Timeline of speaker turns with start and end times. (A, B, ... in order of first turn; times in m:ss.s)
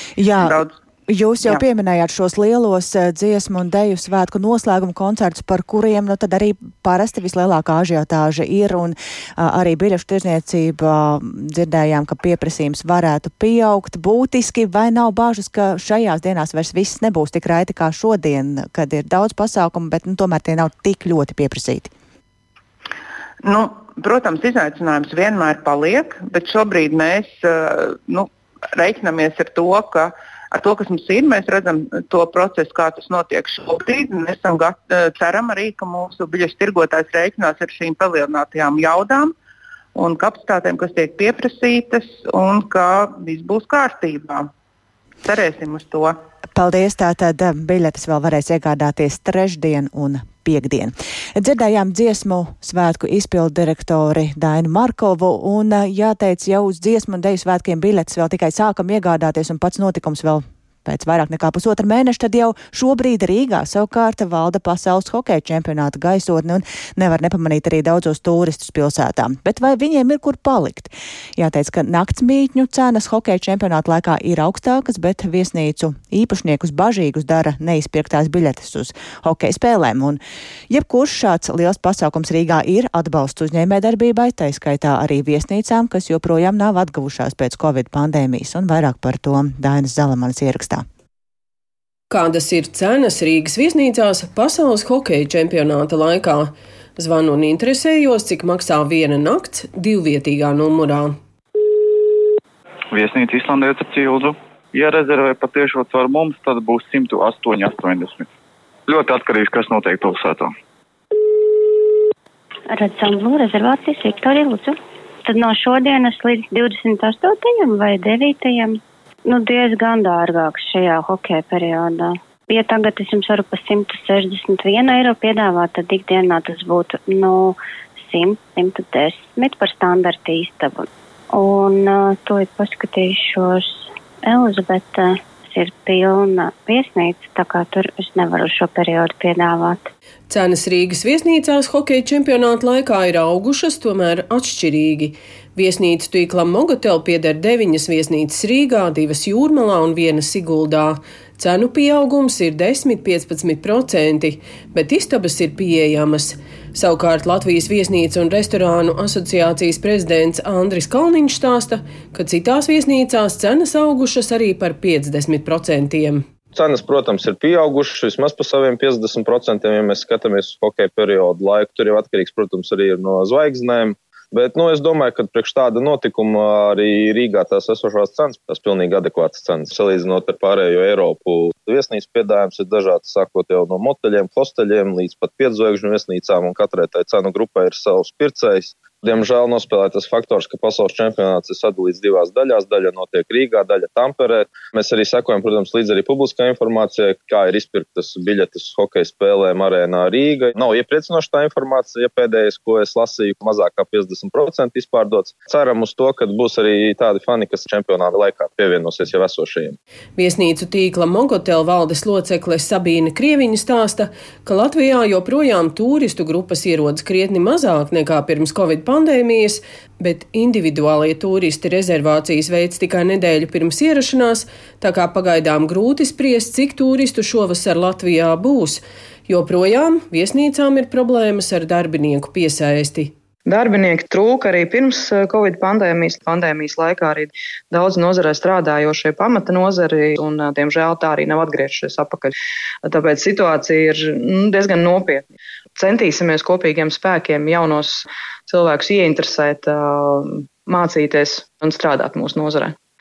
0:00.2-0:21.9 A
0:00.4-0:00.7 B
0:23.4-0:39.3 B
0:40.0-0:44.5 B
0:45.2-0:46.2 B
0:46.6-1:30.8 A
1:32.1-1:41.2 C
1:42.9-1:48.3 D
1:48.9-1:50.5 D
1:52.7-2:19.9 E
2:20.3-2:46.2 C
2:46.5-3:29.8 F
3:30.2-3:53.1 C
3:53.5-4:02.3 G
4:02.8-4:12.8 G